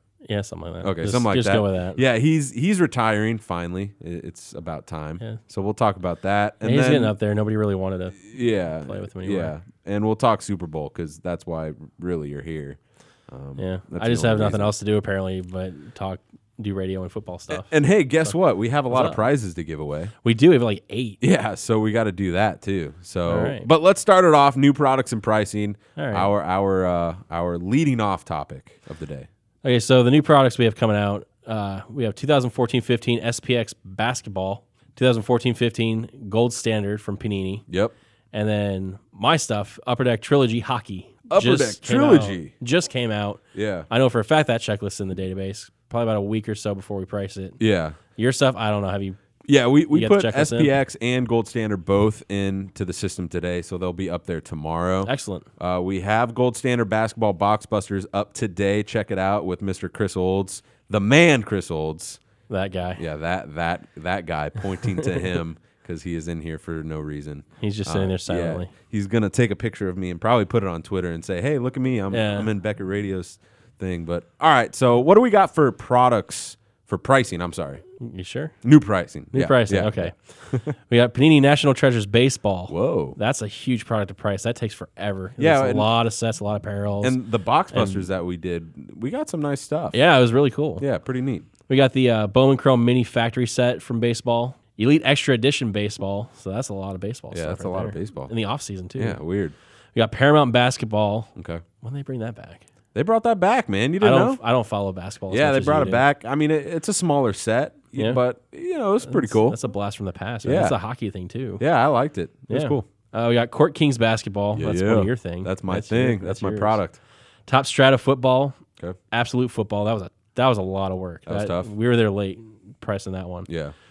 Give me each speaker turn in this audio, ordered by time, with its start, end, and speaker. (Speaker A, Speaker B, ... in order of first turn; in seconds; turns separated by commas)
Speaker A: 0.3-2.0, Speaker B: 0.8-7.1, Speaker A: 6.6-9.5, Speaker B: 8.3-14.7, Speaker A: 13.6-18.3, Speaker B: 17.5-20.1, Speaker A: 18.9-19.2, Speaker A: 20.2-21.2, Speaker B: 21.2-29.3, Speaker A: 23.3-23.7, Speaker A: 26.0-26.3, Speaker A: 29.6-37.6, Speaker B: 37.7-37.9, Speaker A: 38.3-47.6, Speaker B: 41.3-42.5, Speaker B: 43.5-43.9, Speaker B: 47.6-48.0, Speaker A: 48.1-49.2, Speaker B: 49.5-62.2, Speaker A: 49.9-50.7, Speaker A: 55.0-55.5, Speaker A: 62.5-63.0, Speaker B: 63.0-77.8, Speaker A: 67.6-68.7, Speaker A: 72.1-72.5, Speaker A: 78.0-78.5, Speaker B: 78.6-80.7, Speaker A: 79.3-87.2, Speaker B: 82.7-83.2, Speaker B: 85.4-85.9, Speaker B: 87.0-90.0, Speaker A: 87.7-88.0, Speaker A: 89.9-90.8, Speaker B: 90.8-91.5, Speaker A: 91.7-99.2, Speaker B: 97.3-98.3, Speaker B: 99.0-99.5, Speaker A: 100.0-102.7, Speaker B: 101.4-101.6, Speaker B: 103.0-104.4, Speaker A: 104.0-106.0, Speaker B: 105.3-109.6, Speaker A: 109.0-111.6, Speaker B: 110.4-110.8, Speaker B: 111.6-112.9, Speaker A: 112.5-116.8, Speaker B: 114.5-117.0, Speaker A: 117.5-118.6, Speaker A: 119.1-123.5, Speaker B: 121.3-121.7, Speaker B: 123.5-123.7